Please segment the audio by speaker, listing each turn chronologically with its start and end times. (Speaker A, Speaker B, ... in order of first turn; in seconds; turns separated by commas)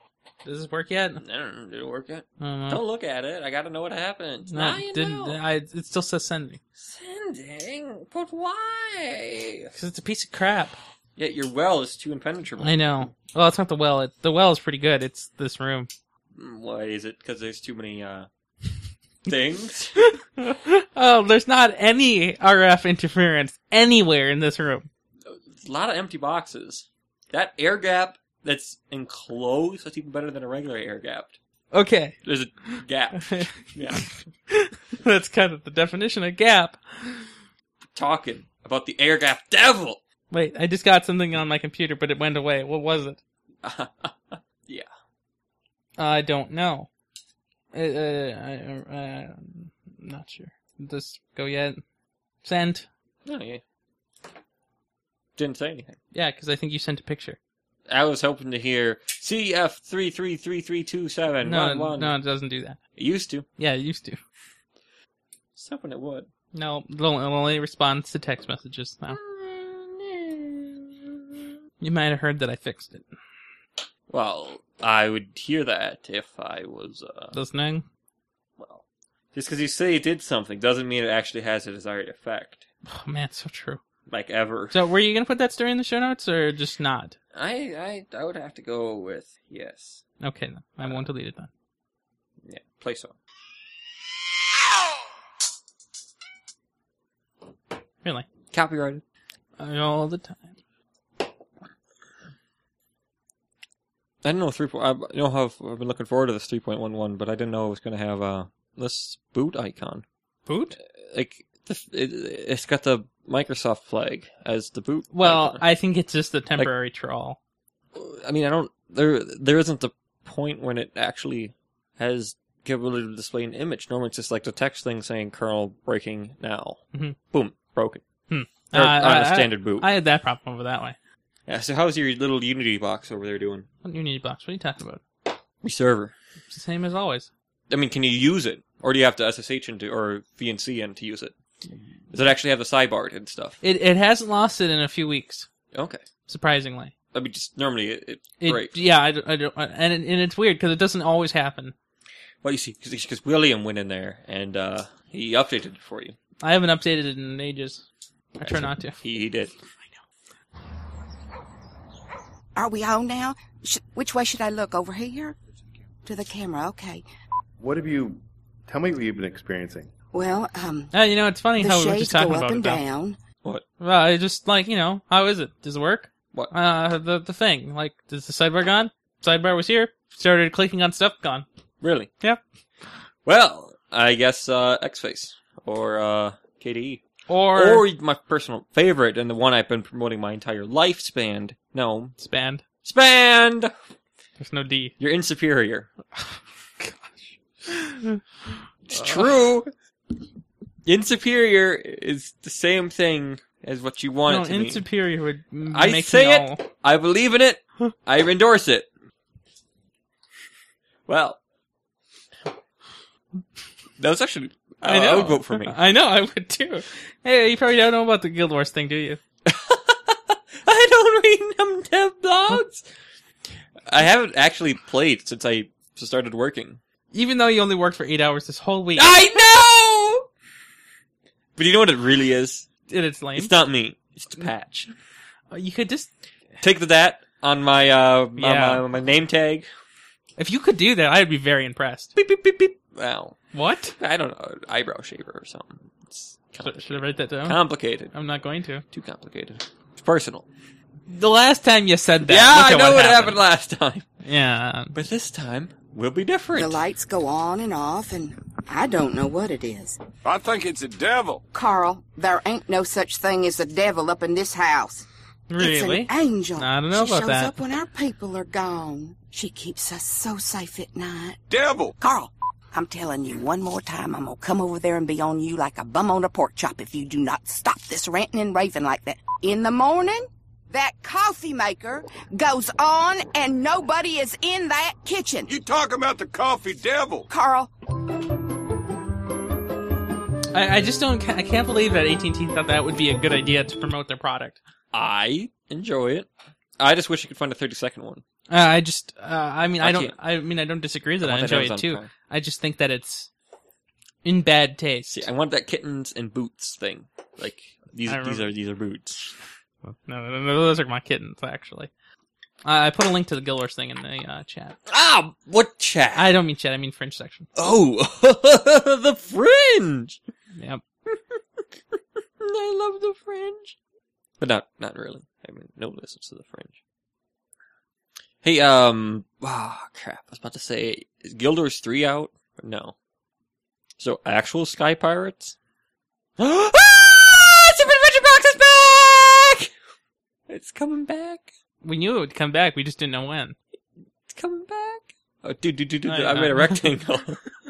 Speaker A: 0.5-1.2, Speaker B: 1.2-5.4, Speaker A: 2.4-2.8, Speaker A: 4.5-6.6, Speaker B: 6.8-9.7, Speaker A: 9.7-10.8, Speaker B: 11.2-12.8, Speaker A: 12.6-15.9, Speaker B: 16.4-18.3, Speaker B: 19.3-20.0, Speaker A: 20.0-24.9, Speaker B: 25.3-31.4, Speaker A: 31.7-32.2, Speaker B: 32.2-34.1, Speaker A: 32.7-37.3, Speaker B: 37.9-40.0, Speaker A: 40.3-43.2, Speaker B: 43.6-44.9, Speaker A: 46.0-46.9, Speaker A: 47.7-51.8, Speaker A: 52.4-52.9, Speaker B: 53.2-53.6, Speaker B: 55.4-56.0, Speaker A: 56.1-57.4, Speaker B: 57.9-62.2, Speaker A: 61.4-62.8, Speaker B: 63.0-63.5, Speaker A: 63.6-64.2, Speaker B: 65.6-66.3, Speaker A: 66.5-69.2, Speaker B: 69.1-71.5, Speaker A: 71.8-73.1, Speaker B: 74.1-77.3, Speaker A: 77.3-77.8, Speaker B: 78.6-82.7, Speaker A: 82.9-83.8, Speaker B: 84.1-84.8, Speaker A: 84.7-87.2, Speaker B: 87.3-90.0, Speaker A: 90.2-91.5, Speaker B: 92.5-93.2, Speaker B: 98.5-99.0, Speaker A: 99.6-100.5, Speaker B: 104.2-110.0, Speaker A: 110.5-110.8, Speaker B: 111.0-115.6, Speaker A: 115.1-117.4, Speaker B: 117.9-128.0, Speaker A: 128.3-131.0, Speaker B: 128.7-129.9, Speaker B: 131.5-133.7, Speaker A: 133.8-135.0, Speaker B: 135.6-136.1, Speaker A: 136.5-137.3, Speaker B: 137.7-141.3, Speaker B: 142.1-143.6, Speaker A: 143.6-145.5, Speaker B: 145.7-146.0, Speaker A: 146.3-146.9, Speaker B: 147.1-148.8, Speaker A: 148.4-151.7, Speaker B: 152.4-156.2, Speaker A: 156.4-157.8, Speaker A: 158.4-159.0, Speaker B: 158.4-159.5, Speaker C: 162.6-165.4, Speaker C: 166.1-167.0, Speaker D: 167.6-169.9, Speaker C: 170.1-170.9, Speaker A: 170.9-172.8, Speaker C: 171.6-173.2, Speaker A: 173.8-181.5, Speaker B: 181.8-182.1, Speaker B: 183.3-192.2, Speaker A: 187.3-187.8, Speaker A: 192.2-192.6, Speaker B: 192.8-193.7, Speaker A: 194.4-194.9, Speaker B: 195.0-195.9, Speaker A: 196.2-198.2, Speaker B: 198.9-199.7, Speaker A: 198.9-199.3, Speaker B: 200.9-204.8, Speaker A: 204.3-206.6, Speaker B: 205.7-208.9, Speaker B: 211.1-211.4, Speaker B: 214.0-215.8, Speaker A: 214.8-219.2, Speaker B: 219.5-222.8, Speaker B: 223.9-226.8, Speaker A: 227.1-229.3, Speaker B: 229.0-230.3, Speaker B: 231.6-232.7, Speaker A: 232.9-233.5, Speaker B: 233.4-234.9, Speaker A: 235.5-236.1, Speaker B: 236.6-239.7, Speaker A: 238.4-238.8, Speaker A: 240.4-242.2, Speaker B: 242.2-243.4, Speaker A: 243.5-244.0, Speaker B: 244.0-248.1, Speaker A: 246.6-248.8, Speaker B: 248.9-250.5, Speaker A: 251.1-253.4, Speaker B: 252.3-254.1, Speaker A: 254.2-255.0, Speaker B: 254.9-256.8, Speaker C: 256.5-260.0, Speaker E: 260.2-261.4, Speaker C: 261.5-265.1, Speaker A: 265.5-267.6, Speaker C: 265.6-271.4, Speaker E: 271.5-271.9, Speaker C: 272.0-285.5, Speaker E: 285.5-287.3, Speaker C: 287.3-287.7, Speaker A: 290.5-294.6, Speaker B: 294.9-296.3, Speaker B: 296.8-298.2, Speaker A: 298.5-303.3, Speaker B: 299.8-300.1, Speaker B: 301.2-302.1, Speaker A: 304.2-305.2, Speaker B: 305.1-309.4, Speaker A: 308.1-308.5, Speaker A: 309.9-311.9, Speaker A: 312.6-314.8, Speaker B: 314.9-316.3, Speaker A: 316.1-317.5, Speaker B: 317.6-320.2, Speaker A: 320.6-320.8, Speaker B: 321.1-323.8, Speaker B: 324.4-326.8, Speaker B: 328.4-332.9, Speaker B: 334.0-335.6, Speaker B: 336.4-339.7, Speaker B: 340.5-341.5, Speaker A: 341.8-343.6, Speaker B: 344.3-347.4, Speaker A: 346.1-346.9